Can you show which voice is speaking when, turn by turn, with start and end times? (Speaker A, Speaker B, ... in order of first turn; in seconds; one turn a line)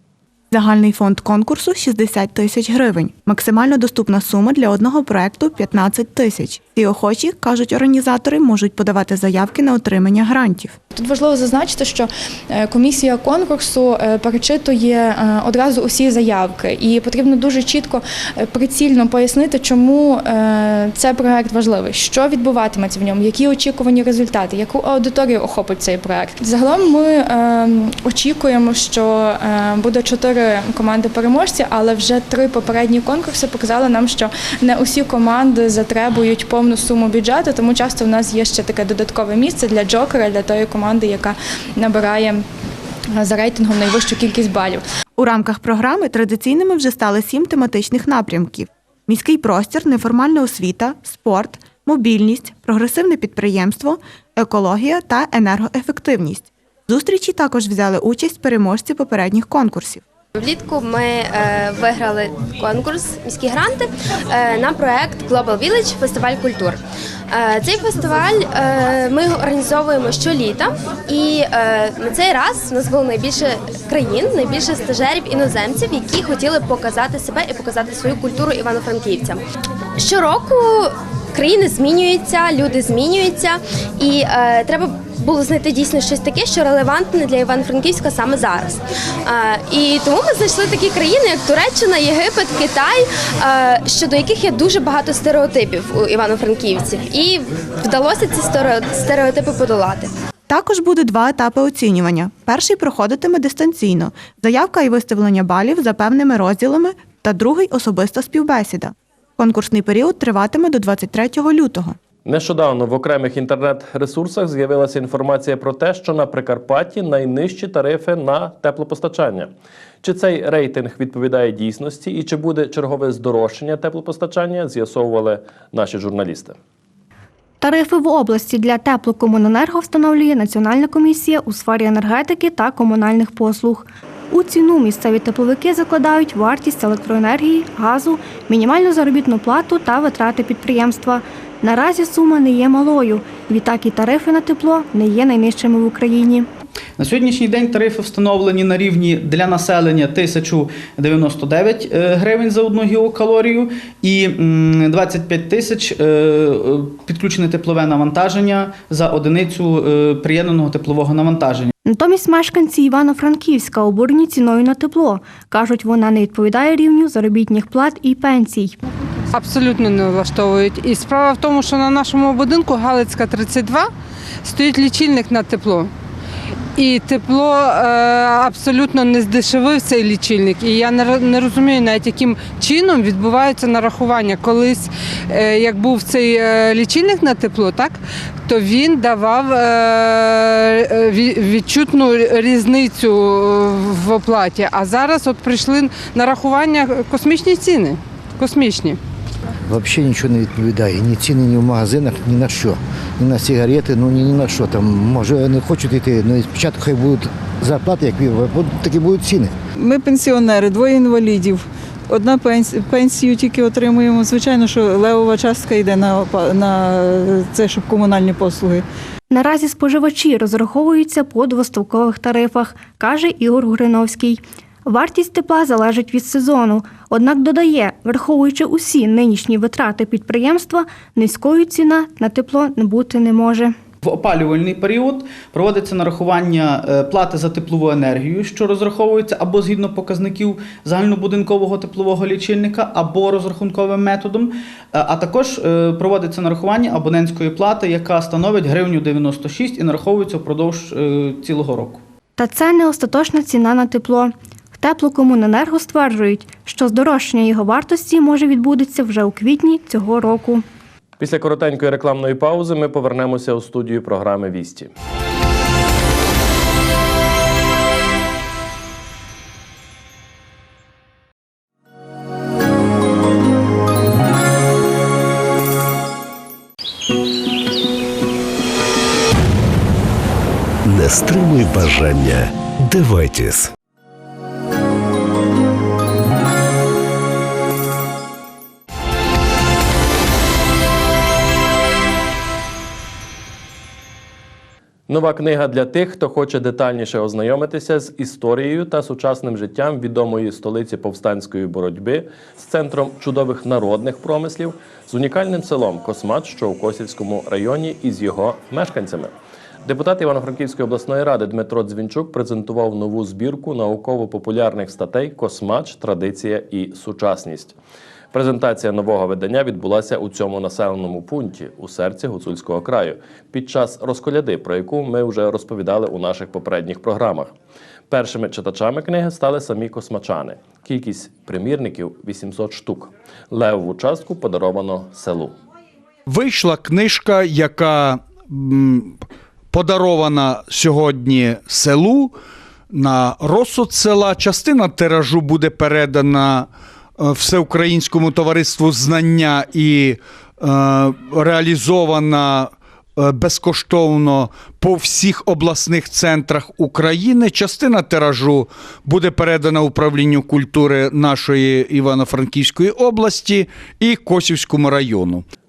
Speaker A: 0.5-10.7
Speaker B: 10.9-42.4
Speaker B: 43.2-44.8
Speaker A: 45.2-60.0
Speaker C: 60.4-79.4
Speaker C: 80.0-100.1
Speaker A: 100.5-112.0
Speaker D: 112.2-119.5
Speaker D: 120.0-126.5
Speaker E: 127.6-146.5
Speaker F: 147.0-161.7
Speaker E: 161.8-168.7
Speaker G: 169.3-173.9
Speaker G: 174.4-175.9
Speaker G: 176.8-199.0
Speaker H: 199.7-209.5
Speaker I: 209.8-218.8
Speaker E: 219.3-233.7
Speaker F: 234.0-252.0
Speaker E: 252.4-260.6
Speaker D: 261.2-264.9
Speaker J: 280.9-283.7
Speaker D: 295.1-309.3
Speaker D: 309.8-317.7
Speaker D: 318.3-327.5
Speaker D: 328.1-335.5
Speaker K: 336.3-339.2
Speaker K: 339.7-342.3
Speaker K: 342.9-365.4